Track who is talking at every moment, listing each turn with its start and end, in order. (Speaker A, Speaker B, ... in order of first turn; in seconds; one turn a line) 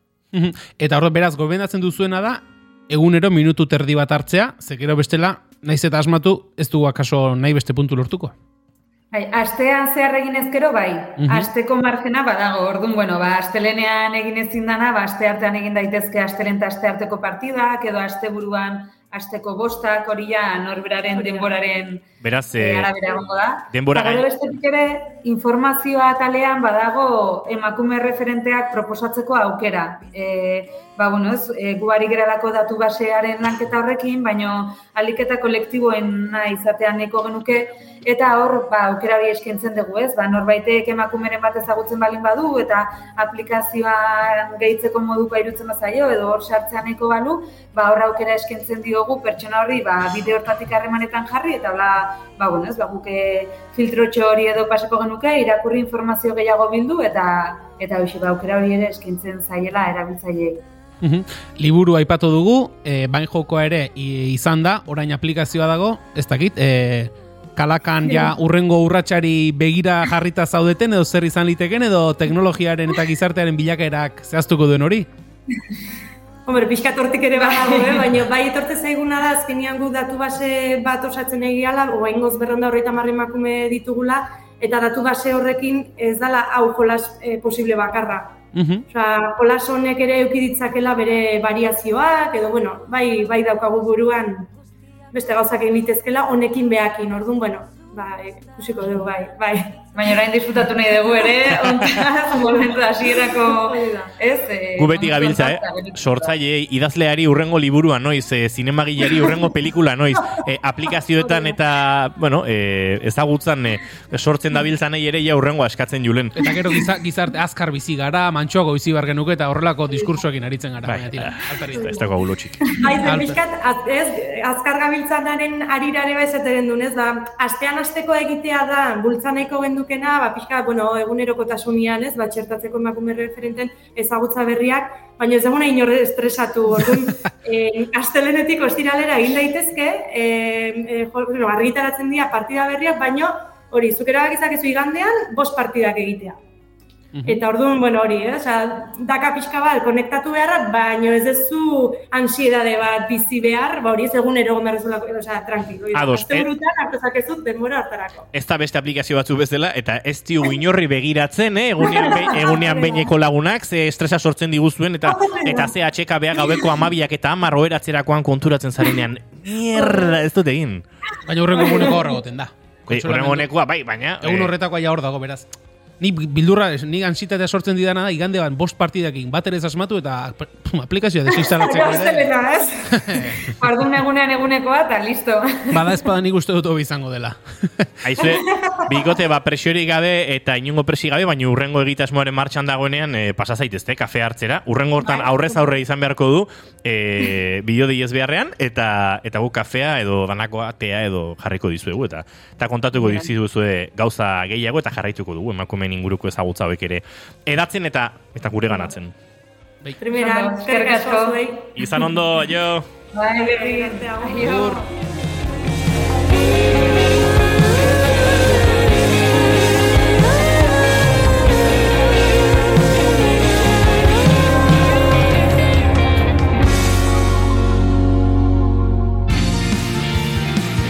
Speaker A: 0.3-8.3
Speaker B: 9.1-22.0
Speaker A: 11.2-11.5
Speaker C: 21.1-21.6
Speaker D: 22.2-22.9
Speaker B: 22.6-60.6
Speaker D: 23.7-24.2
Speaker A: 61.0-75.1
Speaker C: 76.5-88.4
Speaker A: 88.5-88.8
Speaker C: 88.9-94.5
Speaker C: 95.1-99.8
Speaker B: 100.0-106.3
Speaker D: 101.5-101.9
Speaker C: 102.3-104.1
Speaker D: 104.8-116.4
Speaker C: 109.0-109.4
Speaker C: 111.2-111.5
Speaker A: 116.4-122.0
Speaker D: 120.8-122.7
Speaker C: 121.7-122.1
Speaker C: 122.8-146.4
Speaker A: 123.0-123.4
Speaker A: 147.1-147.4
Speaker C: 147.2-158.3
Speaker D: 155.9-156.5
Speaker D: 158.3-170.8
Speaker C: 161.8-163.1
Speaker C: 165.0-165.8
Speaker C: 166.3-166.9
Speaker C: 169.8-170.2
Speaker A: 171.2-173.5
Speaker C: 171.5-172.2
Speaker D: 172.9-174.5
Speaker A: 174.2-175.5
Speaker A: 176.0-182.3
Speaker C: 181.2-183.5
Speaker A: 182.9-183.5
Speaker B: 183.5-185.9
Speaker A: 185.7-188.0
Speaker D: 188.0-209.1
Speaker C: 188.2-188.9
Speaker C: 195.0-195.6
Speaker B: 203.0-203.3
Speaker C: 210.0-211.8
Speaker B: 210.1-211.4
Speaker D: 211.8-212.9
Speaker B: 213.1-214.9
Speaker C: 213.3-214.6
Speaker A: 214.5-214.8